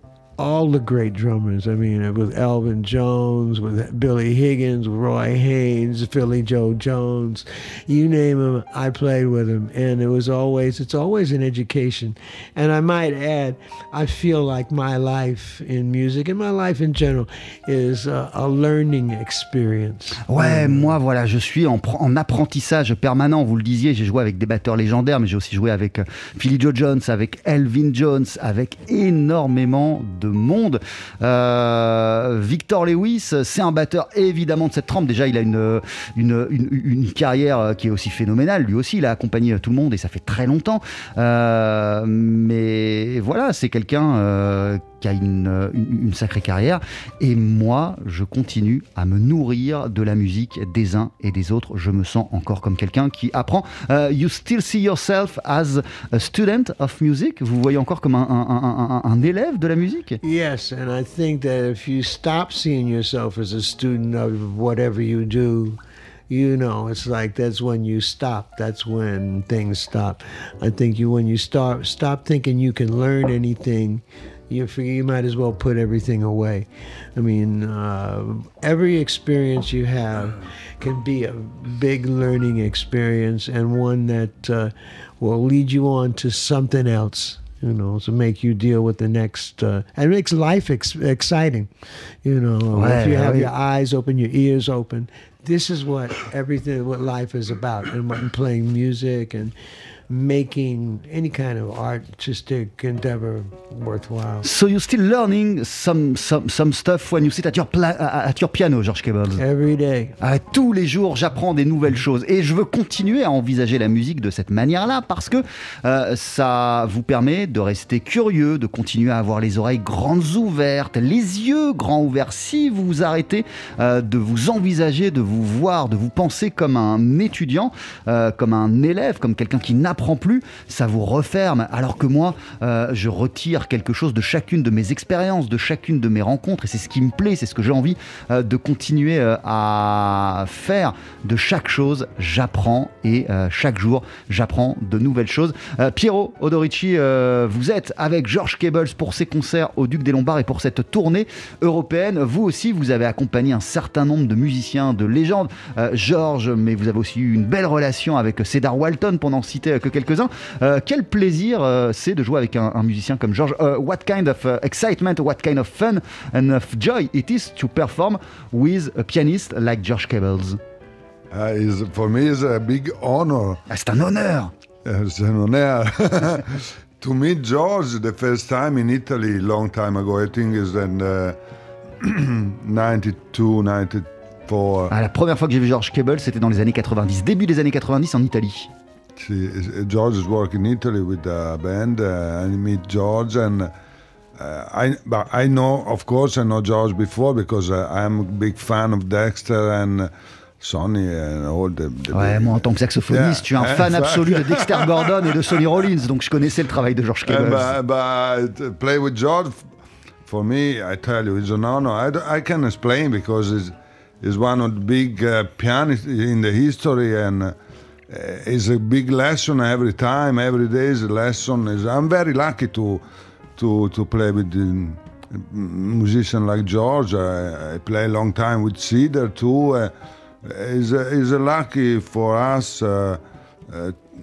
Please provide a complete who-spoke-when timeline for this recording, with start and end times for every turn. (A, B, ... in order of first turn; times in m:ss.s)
0:00.4-0:20.9 A
0:20.3-1:00.2 B
1:00.2-1:05.8 A
1:06.3-1:31.7 A
1:32.2-1:39.5 A
1:32.7-1:33.5 B
1:40.1-1:44.5 A
1:44.4-1:49.4 B
1:49.4-1:50.2 A
1:50.2-2:50.6 B
2:51.3-2:53.6 C
2:53.7-2:54.5 B
2:54.8-3:01.4 C
3:02.0-3:04.9 C
3:04.9-3:08.7 B
3:09.2-3:13.7 C
3:14.4-3:20.1 C
3:20.6-3:25.4 C
3:22.1-3:27.8 B
3:27.3-3:29.6 C
3:30.3-3:37.6 C
3:38.1-3:43.0 C
3:43.6-3:49.9 C
3:50.4-3:54.0 C